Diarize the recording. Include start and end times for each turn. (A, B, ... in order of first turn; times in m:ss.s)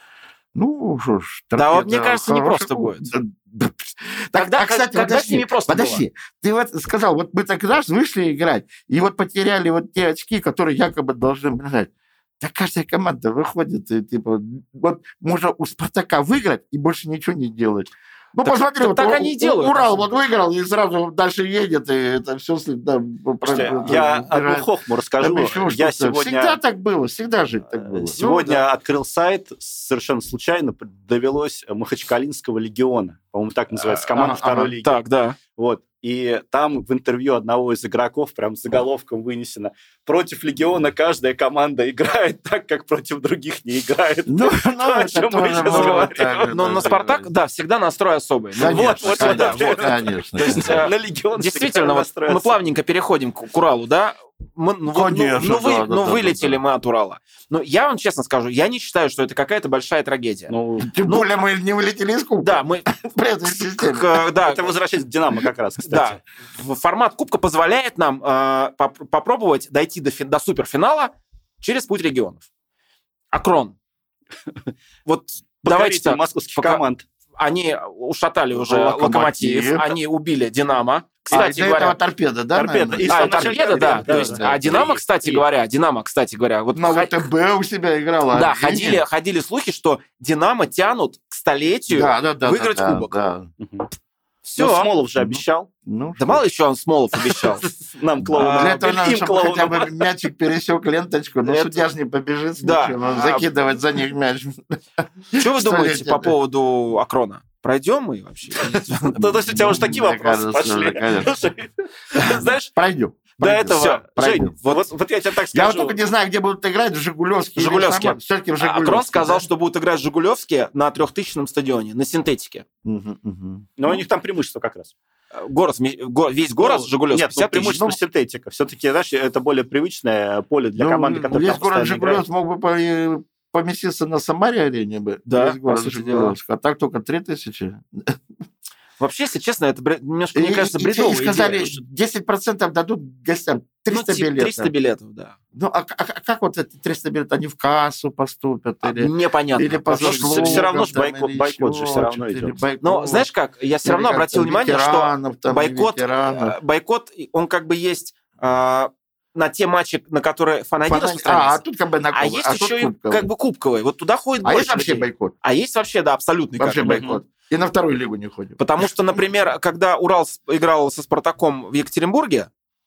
0:00.5-0:24.7 A
0:01.5-0:03.1 B
0:04.4-0:06.0 B
0:18.4-0:20.0 B
0:23.4-0:26.6 C
0:25.2-0:28.2 A
0:27.9-0:35.0 C
0:28.2-0:28.6 B
0:33.9-0:35.4 B
0:34.2-0:34.7 A
0:35.5-0:46.8 C
0:44.3-0:47.3 A
0:45.6-1:00.5 B
0:48.5-0:50.9 A
0:48.6-0:52.6 C
0:54.9-0:56.6 A
1:00.5-1:00.9 C
1:00.8-1:04.2 A
1:02.4-1:02.9 B
1:03.8-1:04.7 B
1:04.4-1:06.2 C
1:05.9-1:12.4 B
1:13.3-1:13.8 B
1:15.0-1:16.8 B
1:15.6-1:17.0 C
1:17.4-1:22.0 B
1:18.5-1:19.9 A
1:21.3-1:24.8 A
1:22.5-1:25.4 C
1:23.1-1:27.3 B
1:26.7-1:29.0 A
1:28.3-1:33.2 B
1:31.9-1:33.5 A
1:33.6-1:33.9 C
1:34.4-1:34.9 B
1:34.6-1:35.7 C
1:35.2-1:36.4 A
1:36.2-1:37.7 B
1:37.2-1:40.0 C
1:38.4-1:38.8 B
1:38.4-1:46.3 A
1:41.4-1:41.8 B
1:42.6-1:43.5 B
1:45.4-1:49.8 B
1:48.6-1:52.5 C
1:49.2-1:51.3 A
1:52.1-1:52.7 B
1:52.3-1:54.5 A
1:53.4-1:56.0 C
1:53.7-1:54.9 B
1:55.5-1:59.5 A
1:57.6-2:02.6 B
2:02.8-2:03.7 A
2:03.8-2:04.9 C
2:05.3-2:08.0 B
2:06.6-2:12.2 C
2:10.8-2:18.2 A
2:15.3-2:16.4 B
2:19.0-2:21.8 B
2:20.3-2:24.7 A
2:23.9-2:25.4 B
2:25.5-2:33.3 A
2:28.8-2:30.7 B
2:30.0-2:32.6 C
2:32.8-2:41.6 B
2:33.8-2:36.5 A
2:40.9-2:43.3 A
2:42.1-2:47.2 B
2:44.4-2:45.3 A
2:46.6-2:48.6 A
2:48.6-2:52.5 B